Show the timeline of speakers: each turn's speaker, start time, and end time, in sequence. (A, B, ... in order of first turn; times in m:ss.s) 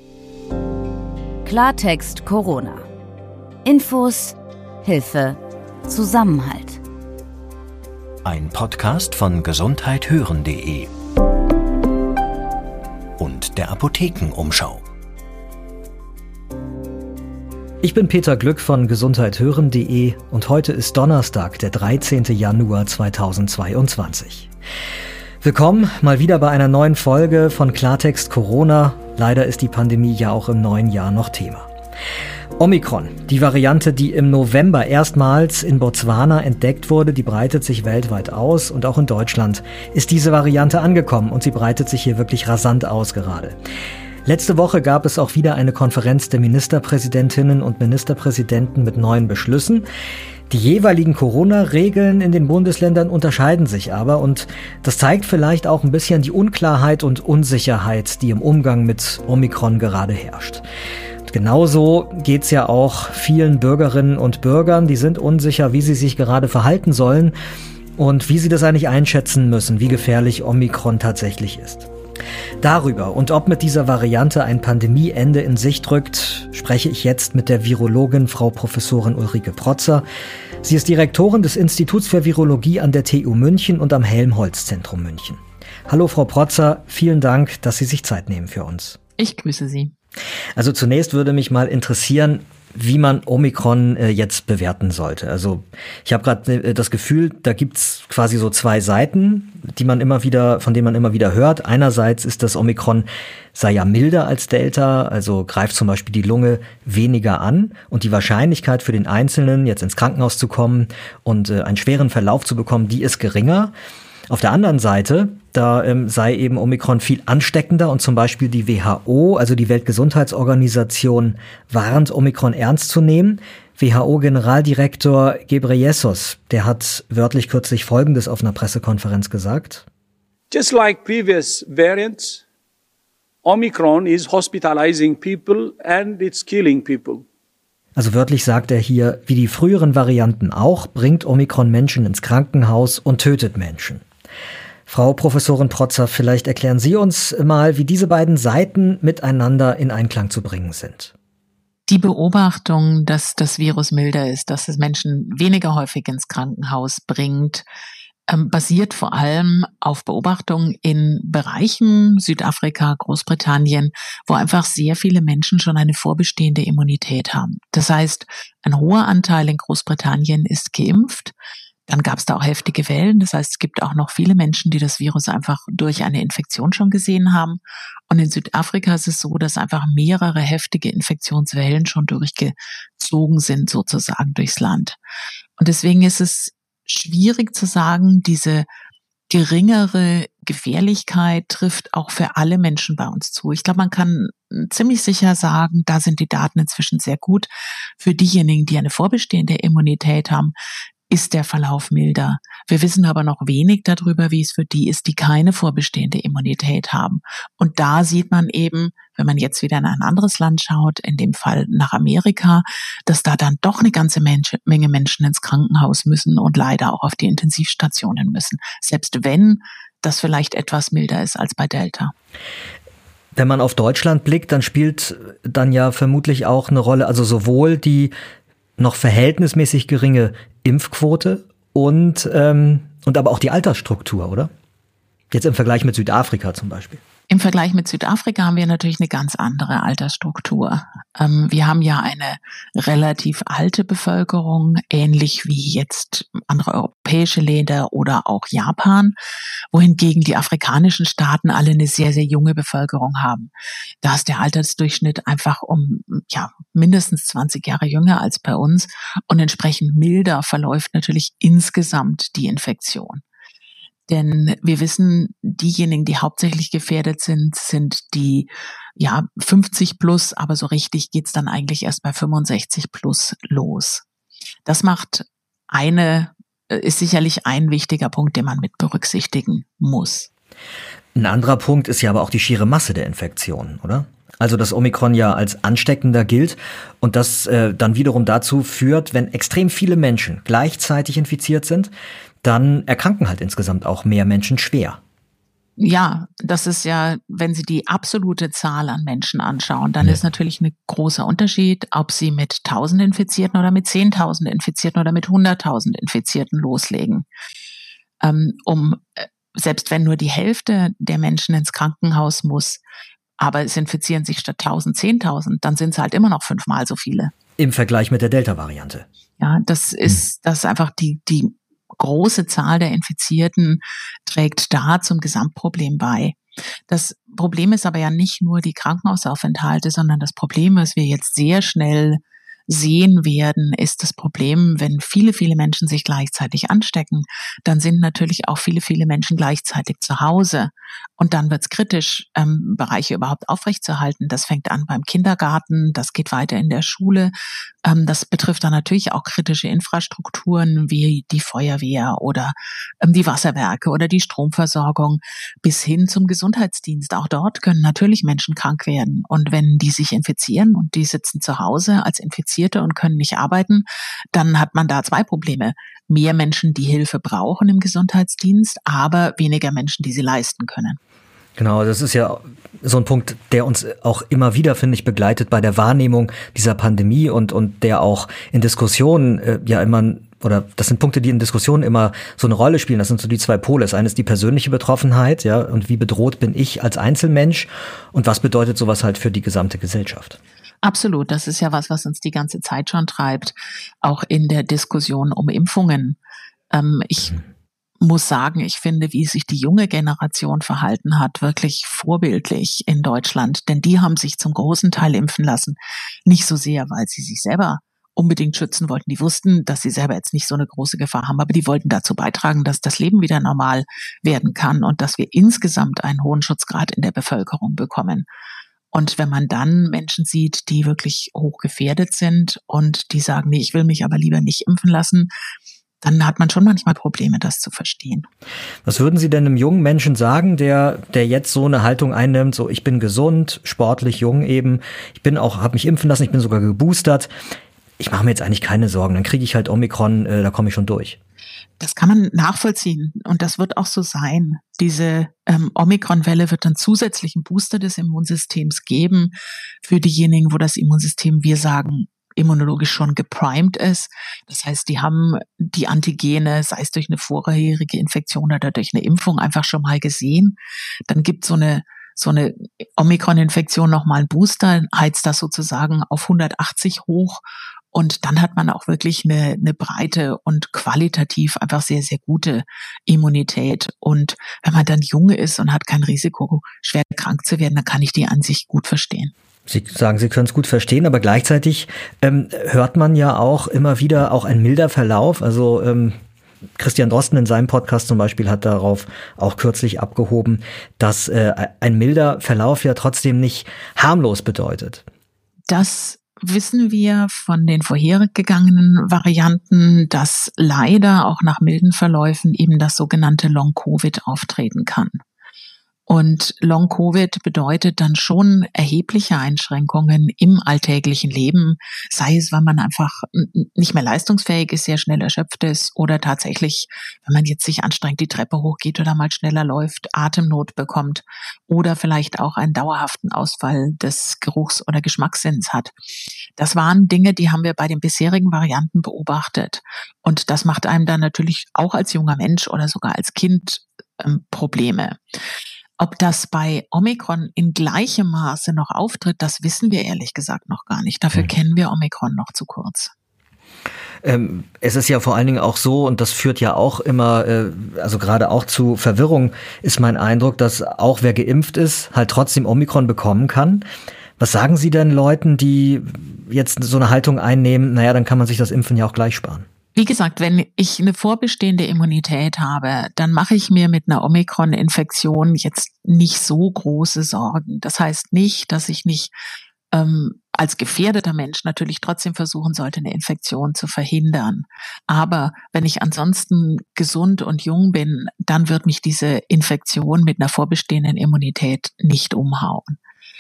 0:01.4-0:02.9 A
0:03.6-0:06.8 A
0:08.2-0:10.9 B
0:13.2-0:14.8 B
0:17.8-0:24.5 C
0:25.4-0:31.7 C
0:32.6-0:43.6 C
0:44.2-0:49.9 C
0:50.5-1:00.6 C
1:01.3-1:07.3 C
1:08.0-1:11.9 C
1:12.6-1:20.0 C
1:20.6-1:29.0 C
1:29.2-1:29.9 D
1:30.6-1:53.7 C
1:54.3-2:09.8 C
2:10.5-2:12.4 E
2:13.4-2:17.2 E
2:18.0-2:24.0 C
2:24.9-2:31.1 C
2:31.9-2:37.6 D
2:38.3-2:51.3 D
2:51.9-3:05.0 D
3:05.6-3:08.7 D
3:09.3-3:20.6 D
3:21.1-3:42.1 D
3:43.4-3:48.1 C
3:48.8-3:54.5 C
3:55.3-3:57.0 C
3:57.3-4:09.2 D
4:09.7-4:23.2 D
4:24.1-4:34.0 D
4:34.6-4:40.3 D
4:41.2-4:51.9 C
4:52.4-4:55.0 C
4:55.8-5:07.3 D
5:08.2-5:12.8 D
5:13.4-5:17.3 D
5:17.6-5:19.0 C
5:19.4-5:26.4 D
5:26.9-6:11.0 D
6:11.6-6:30.4 C
6:30.8-6:36.2 D
6:36.7-6:37.4 D
6:38.0-6:58.3 D
6:58.9-7:05.3 D
7:06.0-7:08.3 D
7:08.8-7:17.3 C
7:18.0-7:21.2 C
7:21.8-7:59.3 D
7:59.7-8:06.2 C
8:06.8-8:15.0 C
8:15.7-8:25.2 D
8:26.1-8:46.0 D
8:46.6-8:55.2 D
8:56.0-9:03.1 D
9:04.2-9:13.8 C
9:14.4-9:19.7 C
9:20.0-9:29.3 D
9:29.9-9:43.0 D